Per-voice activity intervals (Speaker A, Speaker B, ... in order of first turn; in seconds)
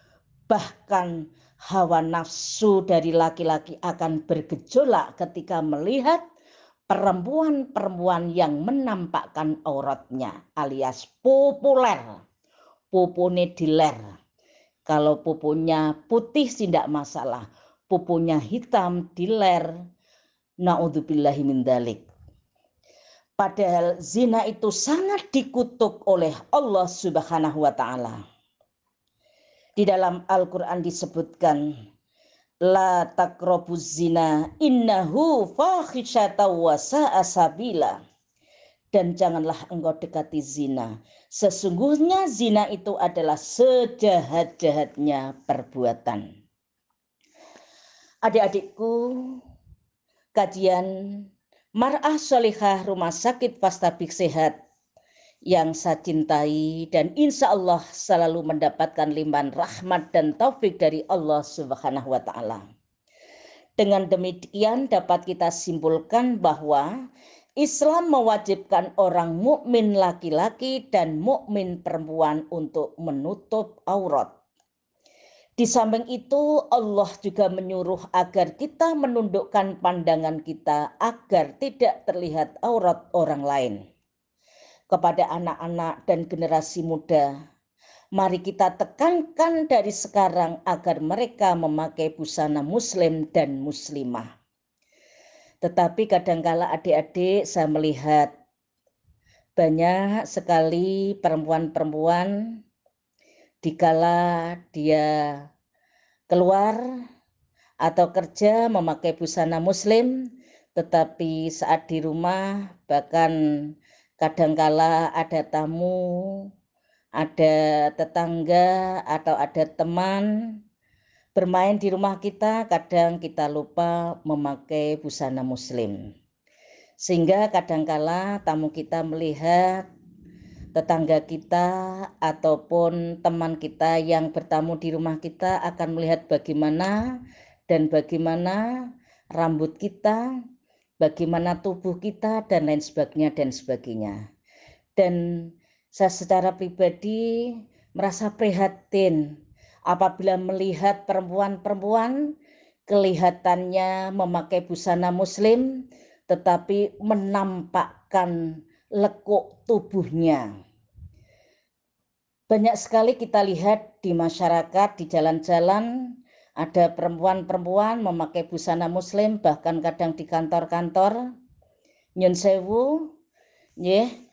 Speaker A: 0.5-6.2, 6.9-12.2, 12.9-14.1, 14.9-19.7, 20.6-22.1, 23.4-28.2, 29.8-31.6, 32.6-38.0, 38.9-46.2, 48.2-49.4, 50.3-51.2, 51.8-54.5, 55.5-62.6, 63.8-66.9, 67.6-74.3, 75.6-83.8, 84.9-87.3, 88.2-94.2, 95.6-98.3, 99.6-102.6, 103.6-105.5, 106.3-106.8, 107.8-110.2, 110.8-113.3, 114.2-116.5, 117.2-120.6, 121.3-126.0, 127.0-129.8, 130.7-137.2, 137.7-138.6, 139.4-140.2, 141.0-144.2, 145.0-149.2, 149.9-152.3, 152.9-158.4, 159.0-160.5, 162.5-165.9, 166.6-171.2, 172.2-173.1, 173.8-174.1